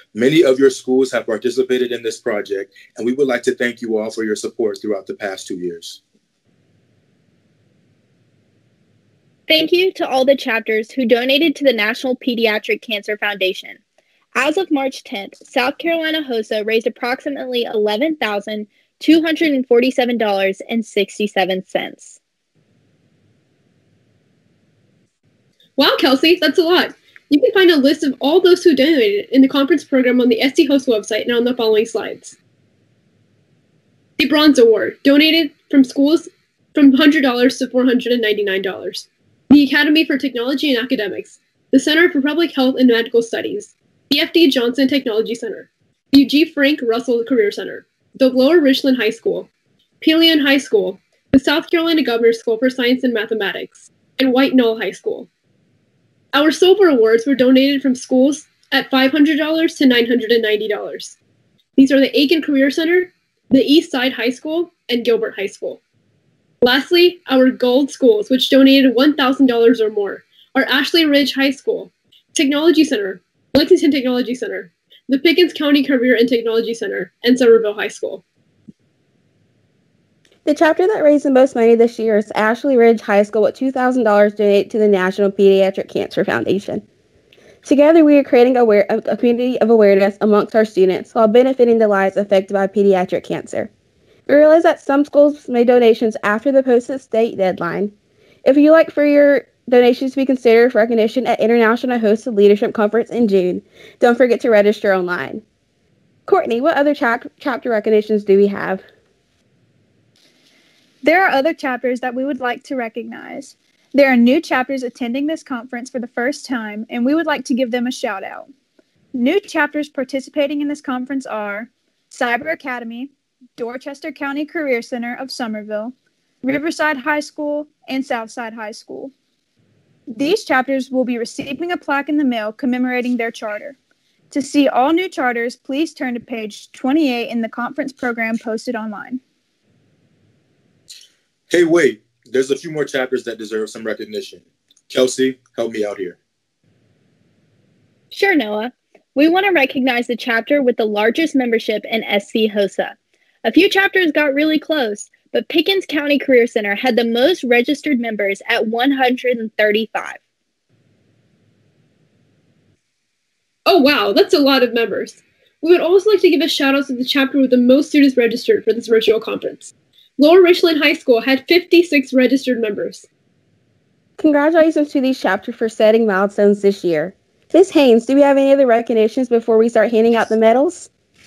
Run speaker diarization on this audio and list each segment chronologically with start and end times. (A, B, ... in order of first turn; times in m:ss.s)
0:00.1-0:06.0 A
0:09.5-0:13.8 B
0:14.3-0:22.2 B
0:25.8-0:32.4 C
0:34.2-0:49.5 C
0:50.0-0:55.3 C
0:56.3-1:01.2 C
1:01.8-1:05.8 C
1:06.6-1:18.2 C
1:20.4-1:26.8 D
1:27.6-1:33.7 D
1:34.3-1:37.9 D
1:38.4-1:45.4 D
1:46.3-1:48.8 D
1:51.0-1:58.5 E
1:59.1-2:09.1 E
2:10.1-2:13.8 E
2:14.3-2:19.2 E
2:21.5-2:26.2 A
2:28.1-2:40.2 B
2:43.6-2:53.0 C
2:54.2-3:00.9 D